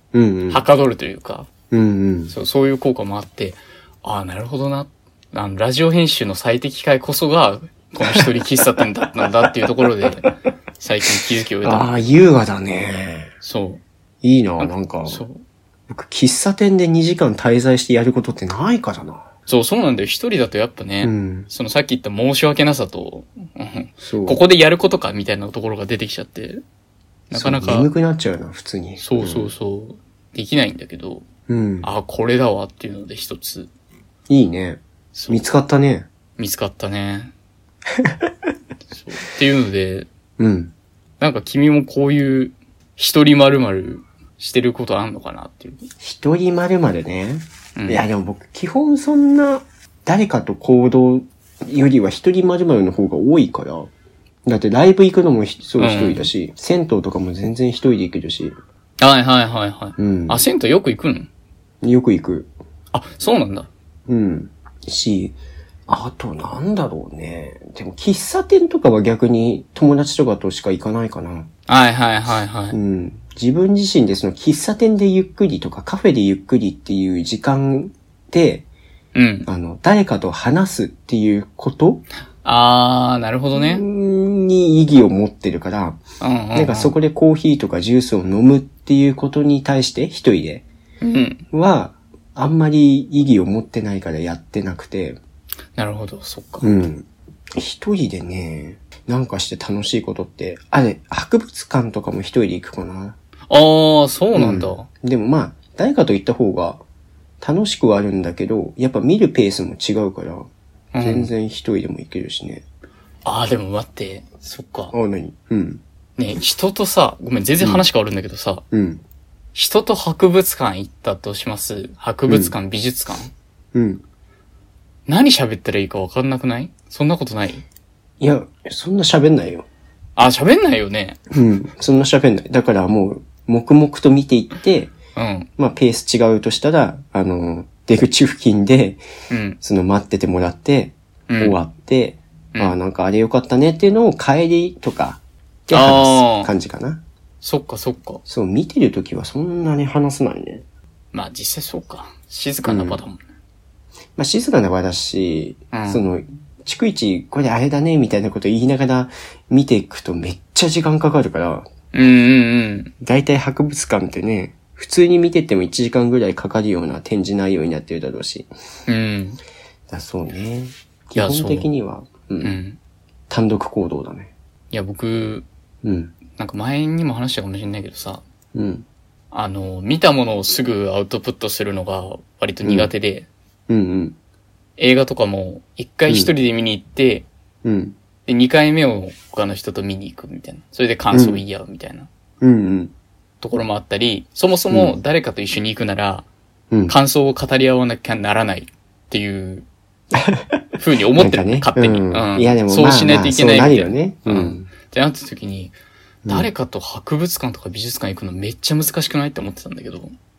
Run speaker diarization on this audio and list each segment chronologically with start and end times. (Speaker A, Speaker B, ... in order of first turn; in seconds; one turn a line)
Speaker A: 0.1-0.6
Speaker B: 0.5-1.5
Speaker A: 1.7-2.3
Speaker B: 2.3-12.1
Speaker A: 9.8-10.3
Speaker A: 11.6-13.3
Speaker B: 13.4-13.8
Speaker A: 14.2-15.2
Speaker B: 14.6-15.4
Speaker A: 15.9-19.3
Speaker B: 19.4-26.6
Speaker A: 21.0-21.5
Speaker A: 24.0-24.4
Speaker B: 27.3-27.9
Speaker A: 27.3-29.5
Speaker B: 29.0-31.3
Speaker A: 31.5-31.9
Speaker B: 31.8-33.7
Speaker A: 34.3-36.1
Speaker B: 35.1-35.5
Speaker B: 36.4-37.3
Speaker B: 39.0-40.1
Speaker A: 40.4-40.7
Speaker B: 41.2-45.9
Speaker A: 46.0-53.9
Speaker B: 47.7-48.1
Speaker A: 54.4-58.5
Speaker B: 55.8-56.3
Speaker B: 59.0-61.3
Speaker A: 60.0-60.5
Speaker A: 61.8-62.5
Speaker B: 62.9-63.7
Speaker A: 64.1-71.5
Speaker B: 71.7-72.8
Speaker A: 72.7-78.7
Speaker B: 79.1-79.5
Speaker A: 79.5-82.0
Speaker B: 82.4-83.8
Speaker A: 83.5-86.0
Speaker B: 86.2-87.0
Speaker A: 86.5-90.7
Speaker B: 91.0-91.4
Speaker A: 91.5-95.2
Speaker B: 95.8-96.7
Speaker A: 96.6-103.2
Speaker B: 103.5-104.9
Speaker A: 104.3-106.8
Speaker A: 107.4-112.6
Speaker B: 110.9-111.3
Speaker B: 113.2-114.9
Speaker A: 114.9-115.8
Speaker B: 116.2-118.6
Speaker A: 117.6-117.8
Speaker A: 118.7-119.0
Speaker B: 119.5-123.3
Speaker A: 122.3-122.5
Speaker A: 123.7-124.0
Speaker B: 125.1-127.6
Speaker A: 128.2-129.7
Speaker B: 130.2-131.2
Speaker A: 131.3-134.9
Speaker B: 135.1-135.5
Speaker A: 135.6-139.0
Speaker B: 139.3-139.6
Speaker A: 139.6-147.0
Speaker B: 141.3-141.6
Speaker B: 145.7-146.5
Speaker B: 147.4-148.2
Speaker A: 148.2-150.6
Speaker B: 151.1-153.2
Speaker A: 152.6-153.0
Speaker A: 154.2-161.7
Speaker B: 155.7-156.0
Speaker B: 161.9-162.9
Speaker A: 163.0-168.5
Speaker B: 168.9-169.4
Speaker A: 169.9-172.6
Speaker B: 171.1-171.7
Speaker B: 172.4-172.8
Speaker A: 173.3-174.3
Speaker B: 174.7-175.4
Speaker A: 175.8-176.2
Speaker B: 176.2-178.2
Speaker A: 178.5-178.8
Speaker B: 179.3-183.3
Speaker A: 182.6-182.9
Speaker A: 183.7-184.2
Speaker B: 184.8-187.3
Speaker A: 187.6-187.9
Speaker B: 188.2-192.1
Speaker A: 191.1-191.4
Speaker A: 192.4-192.9
Speaker B: 193.4-196.2
Speaker A: 194.7-194.9
Speaker A: 196.7-196.9
Speaker B: 196.9-199.7
Speaker A: 200.1-200.6
Speaker B: 200.8-205.7
Speaker A: 201.1-204.8
Speaker B: 206.3-210.1